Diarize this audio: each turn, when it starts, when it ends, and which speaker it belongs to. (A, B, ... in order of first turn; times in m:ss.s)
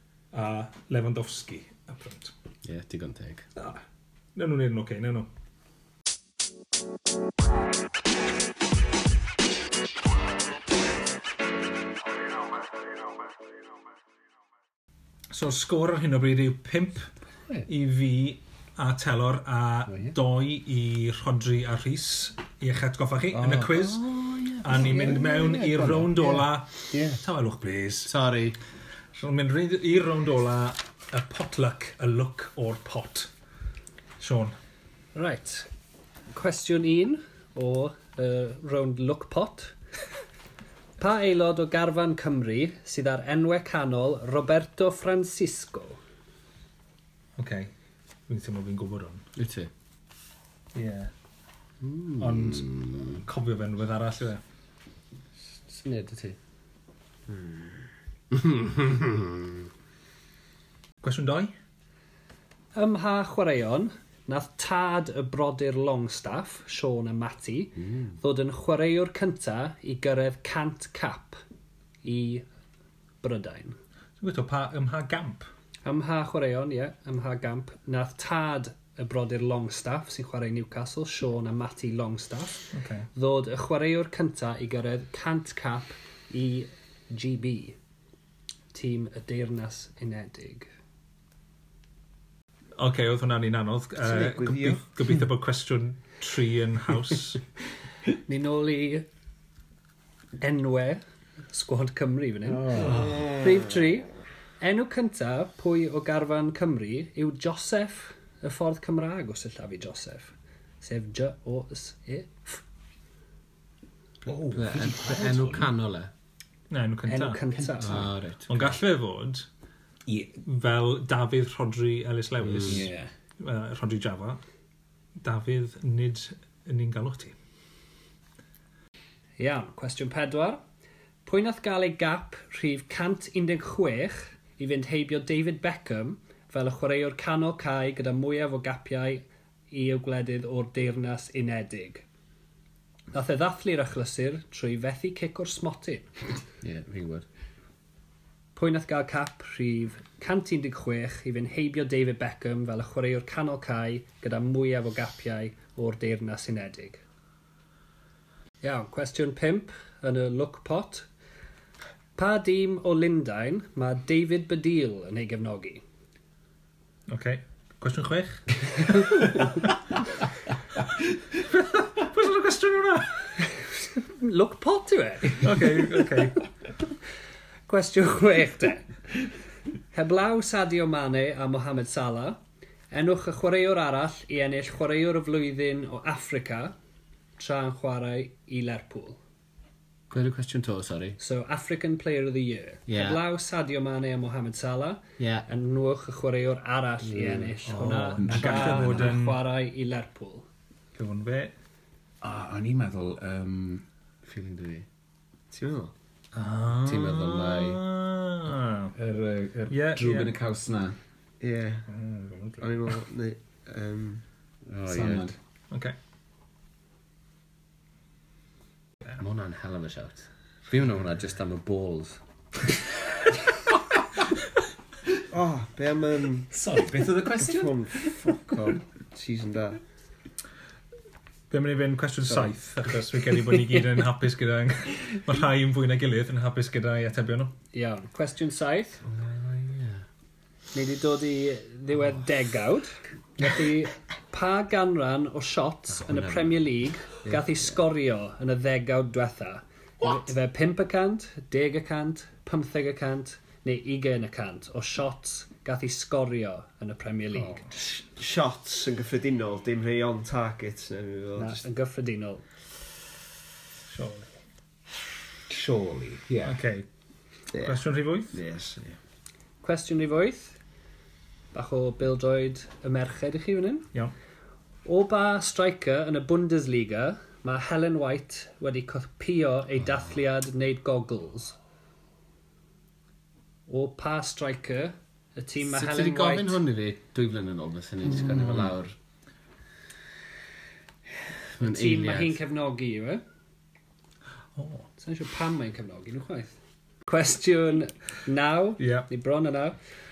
0:00.3-0:02.3 A
0:02.6-0:03.5 B
0:03.6-0:03.8 A
0:04.3-0:05.3 A
0:15.3-0:17.1 A
0:17.6-0:24.1 A
0:23.3-0:27.2 B
0:24.6-0:28.1 A
0:28.0-0:28.6 B
0:29.1-0:33.3 A
0:34.2-0:34.5 A
0:35.1-0:35.7 C
0:36.3-0:39.7 C
0:41.0-0:46.0 C
0:47.4-0:47.7 A
0:48.3-0:49.2 A
0:49.4-0:49.7 B
0:50.7-0:51.1 A
0:51.8-0:53.2 B
0:52.1-0:54.4 A
0:55.5-0:56.4 B
0:58.3-0:59.6 B
1:01.0-1:01.5 A
1:02.7-1:11.4 C
1:12.0-1:12.4 C
1:13.2-1:13.8 C
1:14.2-1:15.4 A
1:15.8-1:27.7 C
1:22.7-1:23.1 A
1:28.7-1:30.7 C
1:32.8-1:37.4 A
1:34.0-1:34.8 D
1:38.3-1:39.0 C
1:40.4-1:44.1 C
1:42.8-1:43.4 D
1:44.6-1:52.6 C
1:54.2-1:55.7 E
1:54.5-1:56.1 B
1:56.7-1:57.4 A
1:57.1-1:58.0 C
1:57.5-1:58.1 E
1:57.8-1:58.7 B
1:58.5-1:59.5 A
2:00.1-2:00.3 E
2:00.4-2:02.9 A
2:02.4-2:02.8 B
2:02.6-2:03.1 E
2:03.4-2:04.4 A
2:05.2-2:07.3 A
2:09.4-2:10.6 C
2:11.2-2:22.0 C
2:23.1-2:26.1 C
2:26.6-2:27.2 B
2:28.5-2:37.0 C
2:38.6-2:41.1 C
2:42.2-2:45.8 C
2:47.1-2:49.6 A
2:51.4-2:53.3 A
2:54.0-2:56.2 C
2:55.4-2:56.4 A
2:57.7-2:58.9 C
2:59.9-3:02.4 C
3:02.9-3:06.7 C
3:07.4-3:09.2 C
3:10.1-3:11.2 B
3:11.2-3:20.4 C
3:12.9-3:13.2 B
3:15.2-3:15.5 B
3:17.0-3:18.2 B
3:17.8-3:19.4 A
3:18.2-3:19.1 E
3:20.9-3:21.5 A
3:22.2-3:23.8 E
3:24.2-3:24.9 B
3:25.5-3:25.9 D
3:26.3-3:28.9 A
3:26.8-3:27.8 B
3:28.9-3:31.0 E
3:29.7-3:30.3 A
3:31.4-3:31.9 D
3:31.9-3:32.7 A
3:32.6-3:34.2 D
3:34.7-3:35.3 B
3:34.9-3:35.4 E
3:39.2-3:42.2 B
3:45.3-3:46.5 D
3:46.5-3:47.8 E
3:47.3-3:49.8 D
3:51.5-3:57.5 A
3:57.7-3:59.0 C
3:59.0-4:00.0 B
4:00.7-4:17.6 C
4:05.9-4:06.6 B
4:17.8-4:21.6 D
4:21.4-4:22.4 C
4:23.9-4:24.3 A
4:25.5-4:26.6 E
4:26.4-4:26.8 A
4:27.5-4:27.8 D
4:27.6-4:28.4 A
4:28.3-4:28.9 D
4:29.6-4:30.6 C
4:31.5-4:33.9 C
4:34.8-4:41.6 C
4:43.7-4:46.6 C
4:45.6-4:48.9 B
4:51.6-4:52.4 B
4:51.6-4:53.2 C
4:54.6-4:54.9 A
4:55.0-4:56.5 C
4:57.0-4:59.8 C
4:58.8-4:59.1 A